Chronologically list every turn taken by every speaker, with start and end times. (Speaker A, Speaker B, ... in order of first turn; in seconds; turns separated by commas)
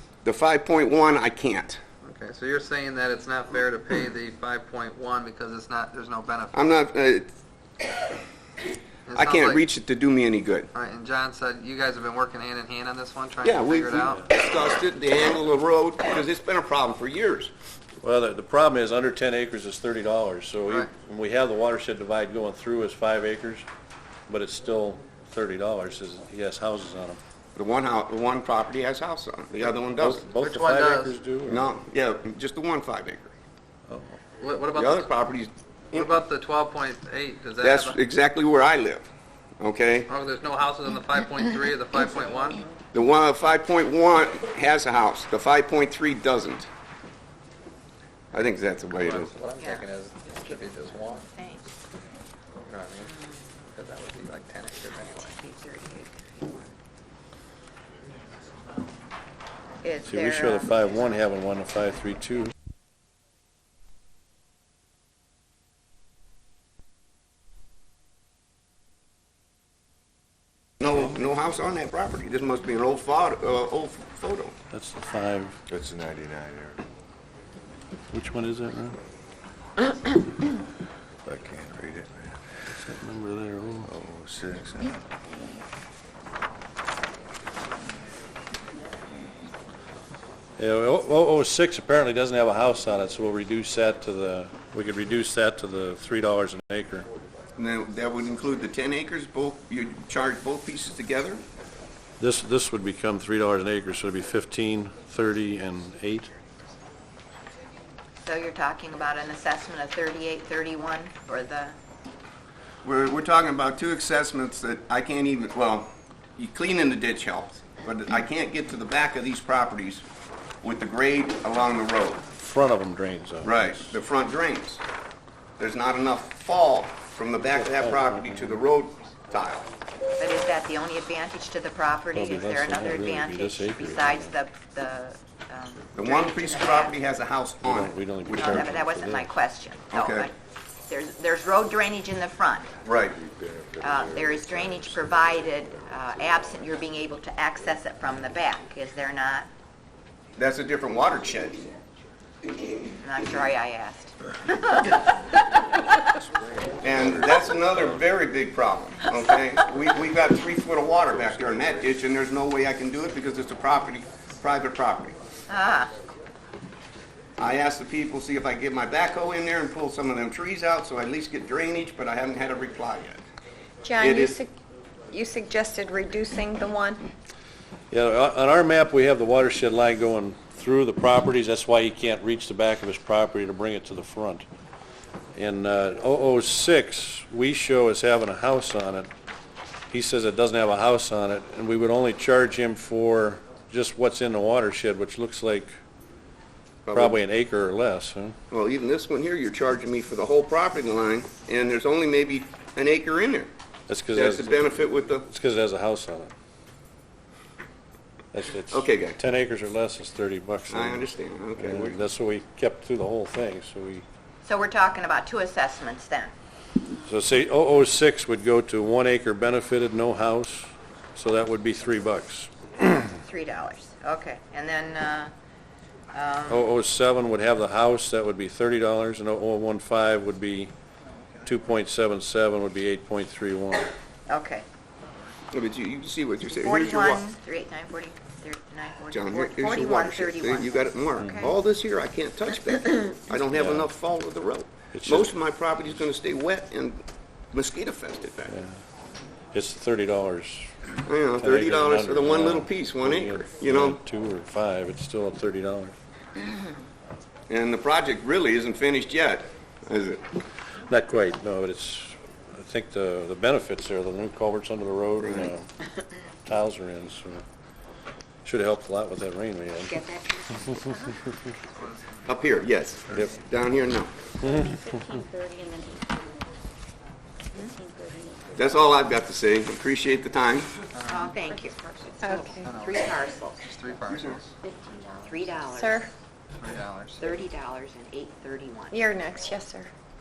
Speaker A: 0.2-1.8, Speaker B: 2.0-6.7, Speaker A: 6.5-7.3, Speaker B: 9.1-9.6, Speaker A: 9.1-10.7, Speaker B: 10.7-14.2, Speaker A: 13.4-17.5, Speaker C: 18.0-23.6, Speaker C: 24.3-27.2, Speaker A: 27.5-30.3, Speaker C: 29.6-31.7, Speaker B: 30.4-31.1, Speaker A: 31.4-33.3, Speaker C: 33.9-34.2, Speaker B: 34.4-35.1, Speaker A: 34.7-36.1, Speaker B: 35.9-38.0, Speaker A: 37.6-39.0, Speaker A: 39.6-40.1, Speaker B: 40.1-42.7, Speaker A: 42.9-46.7, Speaker A: 48.3-49.3, Speaker B: 49.0-51.2, Speaker D: 49.6-51.7, Speaker B: 52.7-53.1, Speaker D: 53.0-53.5, Speaker B: 53.7-55.2, Speaker D: 54.9-56.7, Speaker D: 59.8-60.9, Speaker C: 60.0-62.5, Speaker A: 70.8-74.5, Speaker C: 74.7-75.6, Speaker E: 75.7-76.8, Speaker C: 78.1-79.0, Speaker E: 81.2-82.4, Speaker C: 82.7-83.9, Speaker E: 83.8-85.0, Speaker C: 90.6-97.0, Speaker A: 97.6-101.4, Speaker C: 102.2-106.3, Speaker D: 108.2-111.8, Speaker A: 112.8-120.0, Speaker A: 120.6-122.2, Speaker C: 122.3-123.9, Speaker A: 123.4-124.8, Speaker A: 125.6-129.7, Speaker C: 127.6-128.6, Speaker D: 130.2-137.0, Speaker C: 132.1-134.3, Speaker A: 135.9-138.7, Speaker C: 137.6-139.3, Speaker D: 138.3-140.3, Speaker A: 139.9-140.3, Speaker D: 140.8-142.7, Speaker A: 142.8-143.2, Speaker E: 143.2-145.1, Speaker D: 143.8-149.5, Speaker A: 150.3-151.6, Speaker D: 153.0-155.0, Speaker E: 156.3-157.1, Speaker A: 156.8-165.2, Speaker D: 165.5-165.9, Speaker A: 167.4-173.2, Speaker F: 173.8-174.5, Speaker A: 174.0-174.3, Speaker F: 175.1-177.0, Speaker C: 177.9-184.4, Speaker C: 185.3-189.1, Speaker C: 189.9-195.7, Speaker A: 196.8-197.2, Speaker C: 196.9-198.3, Speaker A: 198.5-203.5, Speaker C: 203.9-206.3, Speaker A: 204.1-205.3, Speaker C: 208.3-214.0, Speaker A: 208.7-209.2, Speaker A: 210.7-212.0, Speaker D: 214.4-216.3, Speaker C: 217.0-222.5, Speaker D: 223.2-225.3, Speaker D: 226.1-226.7, Speaker C: 226.5-230.7, Speaker C: 231.4-233.9, Speaker D: 234.3-234.6, Speaker A: 235.5-237.3, Speaker D: 236.5-241.5, Speaker A: 239.1-248.6, Speaker C: 241.2-241.5, Speaker C: 243.3-243.9, Speaker C: 244.9-245.3, Speaker C: 248.5-248.8, Speaker C: 249.5-255.9, Speaker A: 251.1-254.0, Speaker A: 257.5-260.2, Speaker C: 260.9-265.7, Speaker C: 266.4-267.4, Speaker C: 268.4-270.0, Speaker G: 269.9-271.4, Speaker B: 271.7-273.4, Speaker A: 272.2-274.1, Speaker C: 274.4-275.2, Speaker G: 274.4-276.1, Speaker G: 277.7-278.7, Speaker A: 278.6-280.7, Speaker B: 280.9-281.4, Speaker D: 281.1-283.8, Speaker F: 282.2-282.7, Speaker B: 282.6-284.5, Speaker A: 284.1-284.4, Speaker G: 284.6-285.7, Speaker D: 285.2-286.0, Speaker F: 285.7-286.1, Speaker B: 286.5-287.3, Speaker D: 287.2-289.0, Speaker F: 288.9-289.9